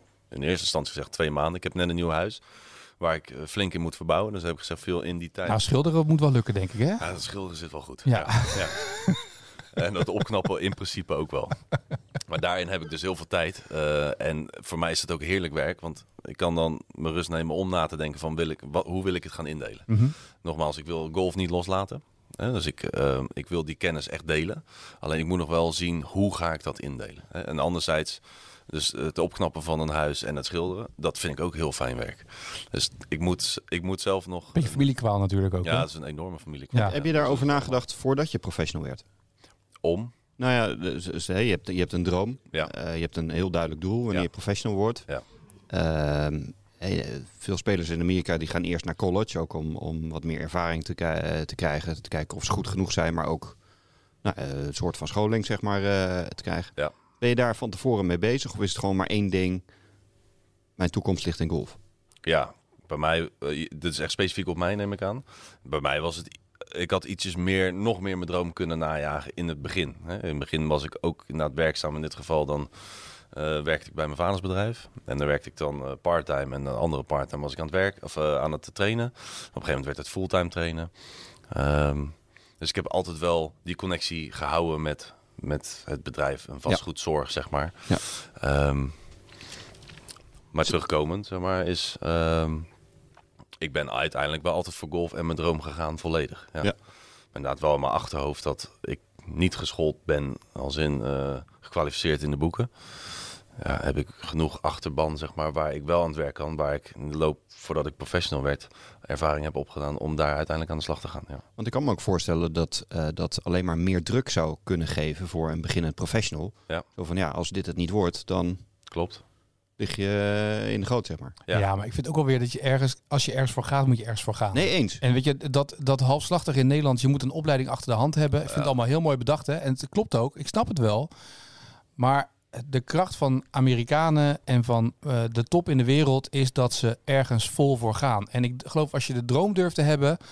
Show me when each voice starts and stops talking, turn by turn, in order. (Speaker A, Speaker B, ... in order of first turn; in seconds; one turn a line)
Speaker A: 0.3-2.4
Speaker A: 3.0-5.6
Speaker B: 5.5-7.1
Speaker A: 7.0-8.9
Speaker B: 8.1-9.2
Speaker A: 9.7-11.6
Speaker A: 12.3-34.9
Speaker B: 19.9-20.1
Speaker B: 34.5-35.9
Speaker A: 35.6-37.8
Speaker C: 36.9-39.0
Speaker A: 39.8-40.1
Speaker C: 40.4-45.1
Speaker C: 45.7-53.6
Speaker C: 54.2-59.6
Speaker C: 60.8-61.8
Speaker A: 62.2-80.9
Speaker A: 81.5-89.0
Speaker A: 90.5-92.7
Speaker A: 93.6-96.7
Speaker A: 97.3-111.5
Speaker C: 111.6-118.6
Speaker A: 118.9-119.2
Speaker C: 119.8-121.4
Speaker B: 121.5-131.1
Speaker C: 124.5-125.0
Speaker B: 132.0-140.2